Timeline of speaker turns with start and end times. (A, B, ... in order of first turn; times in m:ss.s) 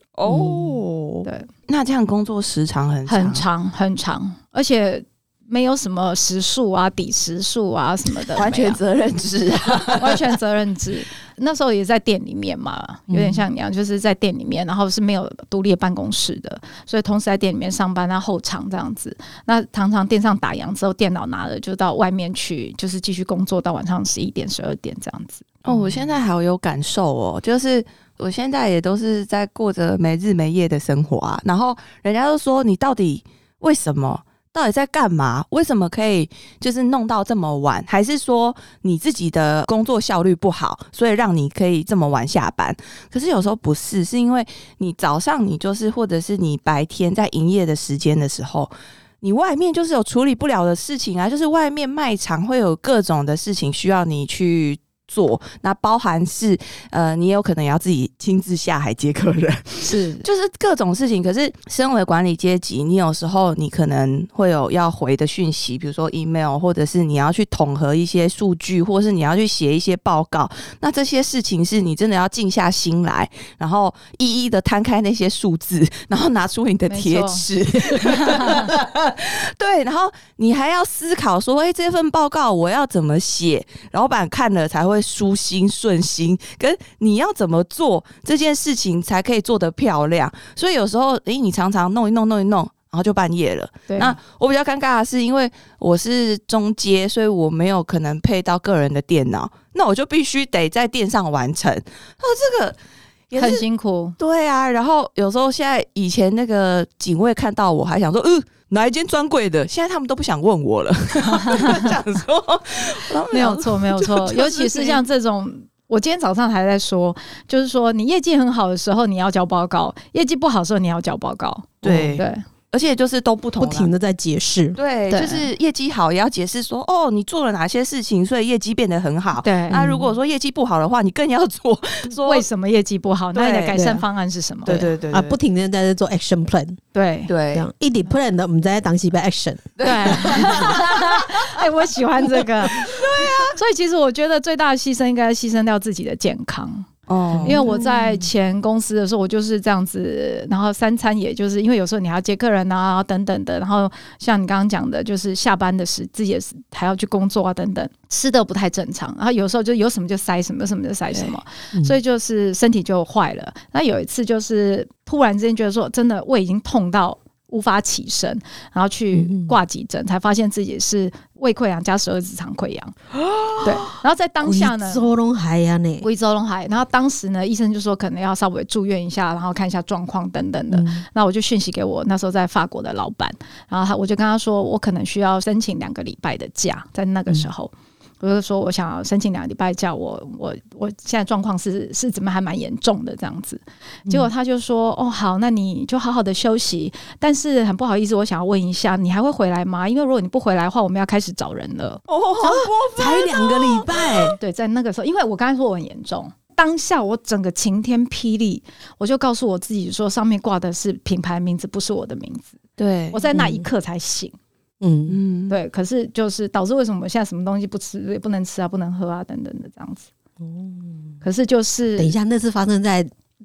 0:00.1-0:03.4 A
0:00.2-0:00.8 B
0:03.1-0:08.8 C
0:08.3-0:10.2 A
0:10.0-0:25.4 C
0:13.1-0:13.4 B
0:25.6-1:42.8 A
0:59.8-1:00.2 C
1:16.9-1:17.4 C
1:18.0-1:18.7 C
1:33.9-1:34.2 C
1:43.3-1:43.6 A
1:43.4-1:44.1 C
1:44.2-1:55.0 A
1:51.4-1:51.9 C
1:53.3-2:02.4 C
2:01.8-2:03.9 A
2:01.8-2:02.1 B
2:03.6-2:04.8 B
2:04.8-2:12.4 A
2:05.1-2:05.5 C
2:09.4-2:09.8 C
2:09.7-2:10.1 B
2:12.2-2:14.9 C
2:13.3-2:13.9 A
2:13.7-2:14.0 B
2:14.6-2:15.4 A
2:14.7-2:16.8 B
2:16.9-2:17.3 C
2:17.3-2:17.6 A
2:17.5-2:20.8 B
2:19.8-2:20.8 A
2:19.8-2:23.0 C
2:22.8-2:23.5 A
2:23.5-2:26.9 C
2:27.1-2:27.8 A
2:27.3-2:28.3 B
2:27.4-2:52.9 C
2:49.1-2:49.6 B
2:53.6-2:55.0 C
2:54.4-2:56.0 B
2:56.0-3:22.0 C
3:00.7-3:01.0 B
3:22.1-3:24.3 A
3:22.4-3:24.4 B
3:24.4-3:32.6 C
3:32.8-3:33.2 A
3:33.1-3:34.3 C
3:33.3-3:33.6 B
3:34.8-3:35.2 B
3:35.1-3:35.6 A
3:35.5-3:40.1 C
3:40.4-3:41.1 B
3:41.2-3:42.1 C
3:42.0-3:43.1 B